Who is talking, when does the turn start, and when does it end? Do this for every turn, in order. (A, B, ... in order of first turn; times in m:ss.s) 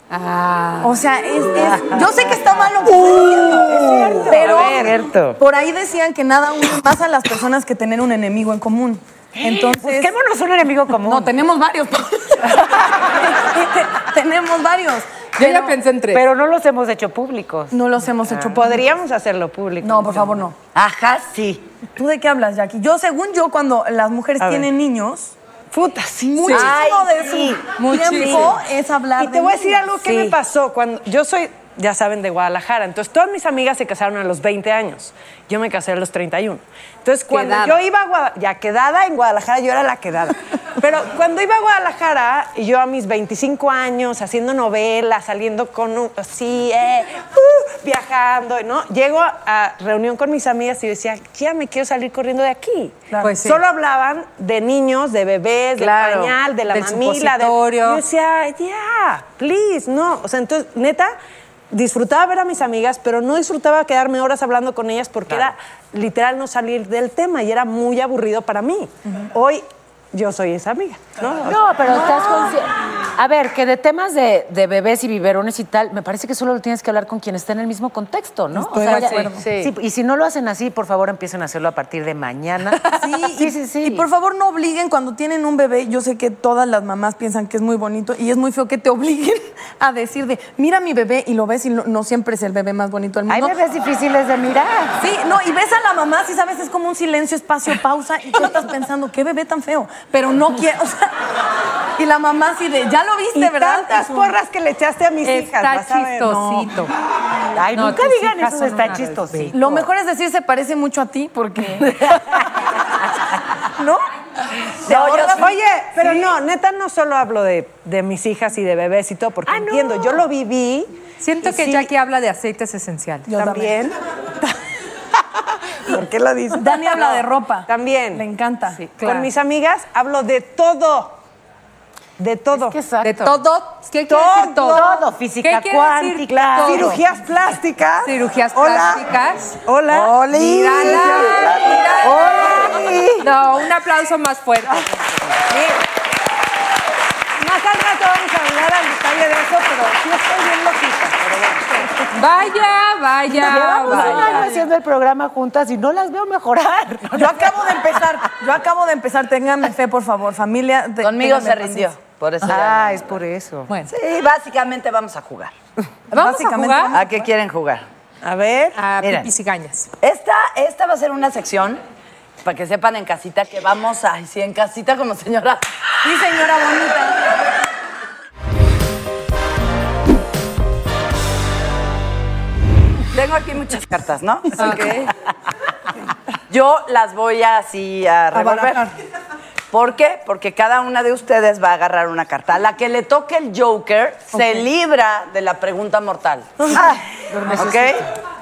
0:00.1-0:01.0 A
0:00.8-0:10.1 B
0:03.5-0:04.9 C
0:04.0-0:05.4 D
0:09.4-0:11.3 D
0:11.0-0:15.6 B
0:15.4-0:16.2 A
0:16.1-0:17.8 D
0:17.7-0:18.8 B
0:18.3-0:18.6 D
0:18.4-0:20.4 C
0:19.8-0:20.6 B
0:20.8-0:21.7 E
0:22.0-0:25.3 B
0:24.4-0:24.7 C
0:25.7-0:26.4 C
0:26.2-0:30.3 B
0:26.4-0:26.8 A
0:26.5-0:27.6 E
0:27.8-0:28.6 A
0:28.2-0:28.5 E
0:29.2-1:01.1 C
0:37.3-0:37.8 A
0:53.2-0:53.6 A
0:55.8-0:56.3 E
0:56.7-0:58.0 A
1:01.7-1:11.6 C
1:11.4-1:24.1 D
1:11.9-1:12.6 B
1:18.7-1:19.4 B
1:18.7-1:19.7 C
1:19.0-1:19.3 A
1:22.9-1:33.6 B
1:33.3-1:35.0 D
1:35.0-1:41.2 B
1:42.0-1:44.3 B
1:43.4-1:46.6 C
1:45.2-1:46.9 A
1:47.6-1:49.9 D
1:47.7-1:49.6 A
1:49.5-1:52.2 B
1:54.8-1:55.5 E
1:54.8-1:55.5 B
1:55.3-2:00.9 C
1:59.5-2:00.3 D
2:01.2-2:03.4 A
2:01.4-2:01.9 C
2:03.3-2:03.8 B
2:03.4-2:04.5 C
2:05.9-2:08.3 C
2:06.5-2:08.8 B
2:08.7-2:09.3 A
2:08.9-2:11.2 C
2:12.2-2:12.8 C
2:12.5-2:13.4 D
2:13.0-2:17.0 A
2:14.1-2:14.9 C
2:14.6-2:17.0 D
2:16.6-2:19.0 C
2:18.0-2:19.6 A
2:19.7-2:20.2 C
2:19.9-2:23.3 D
2:20.3-2:25.0 A
2:20.8-2:22.2 C
2:27.4-2:32.1 C
2:32.1-2:34.5 A
2:33.3-2:38.3 D
2:34.0-2:34.5 E
2:37.1-2:41.9 B
2:41.0-2:43.1 E
2:42.4-2:43.7 D
2:43.9-2:45.5 E
2:46.1-2:47.0 A
2:46.1-2:47.3 B
2:46.9-2:47.8 E
2:48.2-2:48.8 C
2:48.8-2:49.9 A
2:49.0-2:49.3 E
2:50.0-2:51.8 E
2:52.4-2:55.7 E
2:56.0-2:57.2 B
3:03.1-3:05.1 E
3:04.6-3:05.1 A
3:06.5-3:08.9 E
3:08.3-3:08.9 B
3:09.7-3:17.0 E
3:17.3-3:17.9 D
3:17.6-3:18.0 E